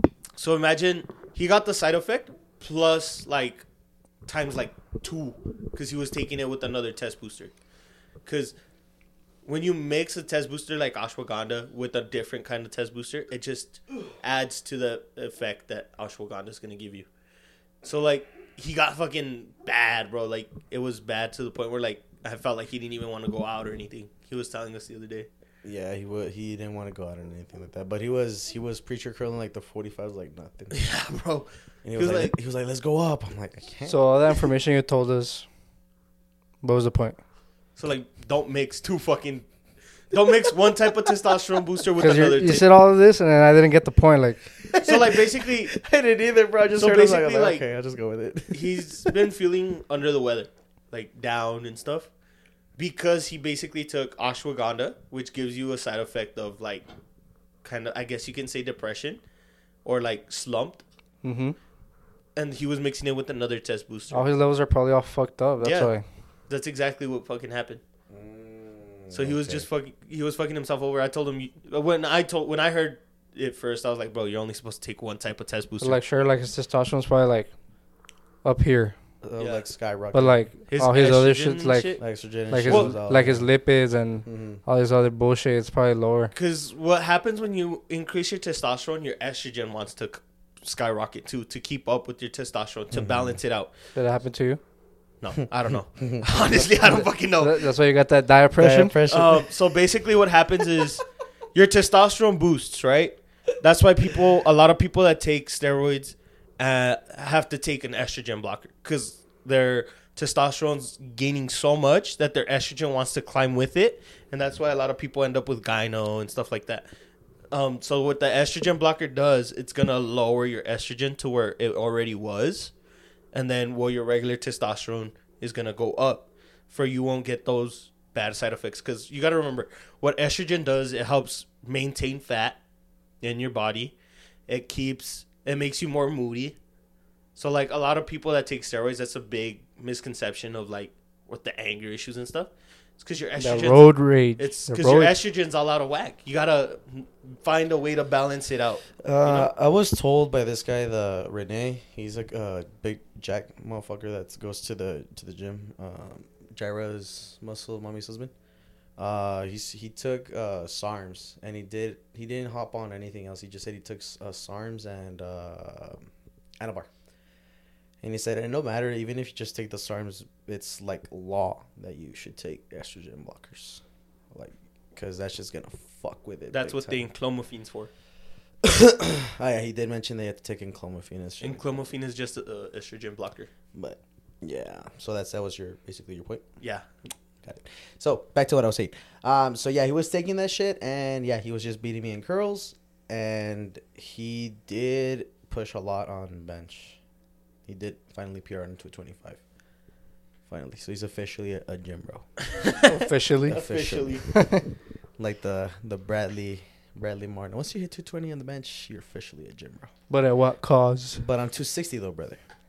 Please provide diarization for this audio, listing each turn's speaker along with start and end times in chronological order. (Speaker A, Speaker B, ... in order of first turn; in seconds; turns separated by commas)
Speaker A: 0.4-3.6, Speaker A: 4.3-7.5, Speaker A: 8.2-8.6, Speaker A: 9.4-17.1, Speaker A: 17.8-25.3, Speaker B: 25.6-30.8, Speaker A: 30.7-32.3, Speaker B: 31.9-34.0, Speaker C: 33.9-35.5, Speaker C: 36.6-37.2, Speaker A: 37.8-39.5, Speaker A: 40.1-42.7, Speaker C: 42.0-44.5, Speaker A: 44.7-45.7, Speaker B: 44.8-49.1, Speaker A: 46.8-47.6, Speaker A: 48.5-52.1, Speaker A: 52.8-56.9, Speaker A: 57.6-59.2, Speaker A: 59.8-60.8, Speaker C: 61.2-61.6, Speaker A: 62.4-64.3, Speaker C: 64.1-66.0, Speaker A: 65.6-65.9, Speaker A: 66.5-67.8, Speaker B: 68.1-69.7, Speaker A: 69.1-76.0, Speaker C: 75.8-77.5, Speaker C: 78.4-79.0, Speaker B: 79.2-80.4, Speaker A: 79.4-79.7, Speaker C: 80.1-86.3, Speaker A: 80.7-82.0, Speaker B: 82.0-83.5, Speaker A: 82.7-83.0, Speaker B: 84.2-84.6, Speaker A: 86.3-93.7, Speaker B: 92.9-93.4, Speaker C: 94.0-94.6, Speaker A: 95.2-97.7, Speaker B: 96.0-96.3, Speaker C: 96.6-98.9, Speaker B: 98.6-99.5, Speaker A: 99.1-116.9, Speaker A: 117.5-122.7, Speaker A: 123.3-132.6, Speaker A: 133.2-133.9, Speaker A: 134.5-136.6, Speaker A: 137.3-149.5, Speaker C: 143.4-145.2, Speaker B: 149.0-158.3, Speaker B: 159.0-166.1, Speaker B: 166.6-166.9, Speaker B: 168.0-177.1, Speaker A: 176.5-177.9, Speaker B: 178.6-181.7, Speaker A: 181.4-183.5, Speaker B: 183.7-186.5, Speaker B: 187.4-197.0, Speaker B: 197.7-199.4, Speaker B: 200.5-202.4, Speaker C: 202.8-203.6, Speaker B: 203.5-204.3, Speaker A: 203.5-204.3, Speaker C: 204.3-204.6, Speaker B: 205.2-209.9, Speaker C: 210.1-211.2, Speaker B: 211.2-212.4